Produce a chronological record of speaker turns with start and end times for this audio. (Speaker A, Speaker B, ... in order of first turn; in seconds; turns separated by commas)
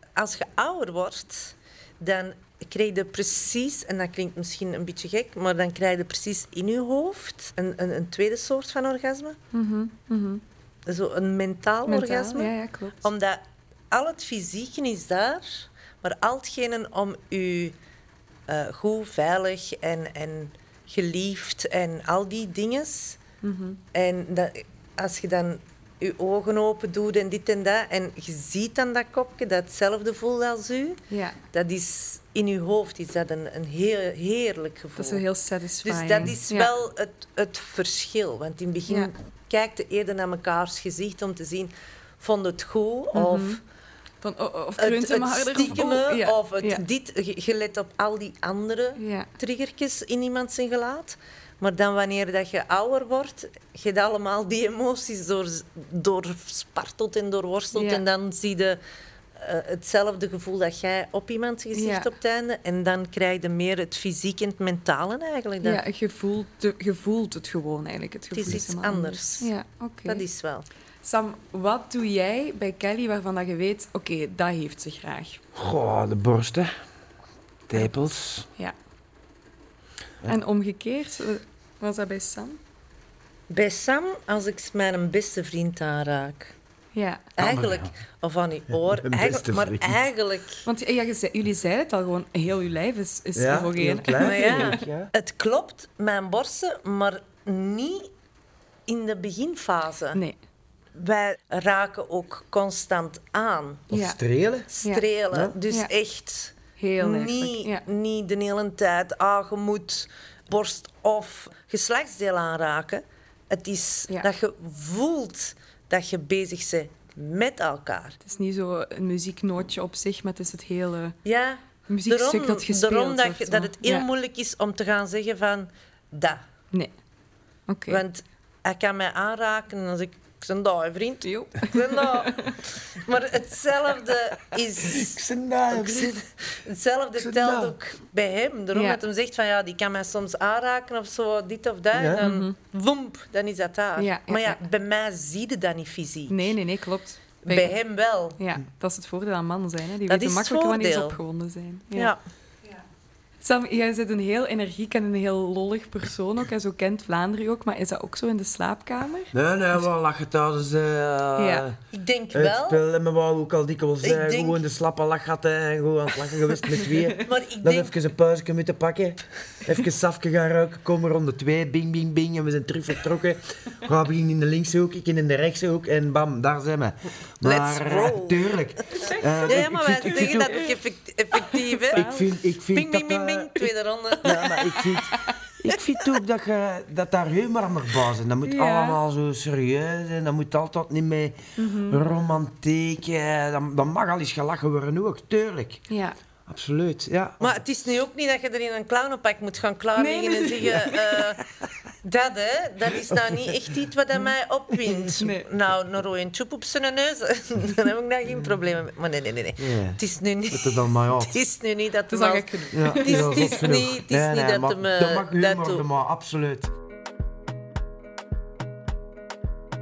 Speaker A: 0.2-9.4, Speaker B: 9.5-10.4, Speaker A: 10.9-17.8, Speaker B: 11.9-13.0, Speaker A: 18.5-23.2, Speaker B: 23.4-23.8, Speaker A: 23.9-35.2, Speaker B: 31.1-31.4, Speaker B: 35.0-36.7, Speaker A: 35.9-43.6, Speaker B: 43.1-43.6, Speaker B: 44.2-46.8, Speaker A: 44.8-58.8, Speaker B: 49.0-49.3, Speaker B: 57.7-58.0, Speaker A: 59.4-65.8, Speaker B: 61.7-62.1, Speaker B: 65.6-70.2, Speaker A: 68.3-69.5, Speaker A: 70.1-70.7, Speaker B: 71.0-75.4, Speaker C: 75.5-76.7, Speaker C: 77.7-78.5, Speaker B: 80.2-82.6, Speaker A: 83.5-86.5, Speaker B: 87.0-87.3, Speaker A: 87.4-90.7, Speaker C: 87.4-87.9, Speaker C: 88.7-90.0, Speaker B: 90.7-94.8, Speaker C: 93.3-95.1, Speaker A: 94.2-98.1, Speaker A: 98.9-100.2, Speaker A: 101.0-103.9, Speaker B: 103.9-104.2, Speaker C: 103.9-104.7, Speaker A: 104.7-118.2, Speaker B: 106.8-107.8, Speaker B: 118.2-121.2, Speaker A: 121.2-126.4, Speaker B: 121.9-124.1, Speaker B: 127.7-128.0, Speaker A: 127.9-146.6, Speaker B: 131.2-132.6, Speaker C: 134.8-136.1, Speaker C: 137.2-137.7, Speaker B: 138.7-139.0, Speaker C: 141.9-142.2, Speaker B: 142.2-142.5, Speaker B: 144.0-144.6, Speaker B: 146.3-147.8, Speaker A: 147.5-148.4, Speaker B: 148.4-152.1, Speaker A: 150.1-151.2, Speaker B: 153.4-159.3, Speaker C: 159.3-161.8, Speaker B: 161.4-161.7, Speaker A: 161.9-162.8, Speaker C: 162.3-180.7, Speaker A: 164.0-164.6, Speaker A: 167.2-168.0, Speaker A: 177.4-182.2, Speaker B: 180.3-180.7, Speaker B: 181.4-182.3, Speaker C: 181.9-183.7, Speaker A: 182.7-184.9, Speaker C: 184.2-195.8, Speaker B: 184.9-185.4, Speaker B: 188.4-189.0, Speaker B: 191.6-192.0, Speaker B: 195.9-196.2, Speaker C: 196.5-197.6, Speaker A: 197.4-201.4, Speaker B: 200.0-201.2, Speaker A: 202.0-215.9, Speaker B: 205.2-205.5, Speaker C: 209.6-211.4, Speaker B: 212.1-213.7, Speaker C: 212.7-216.7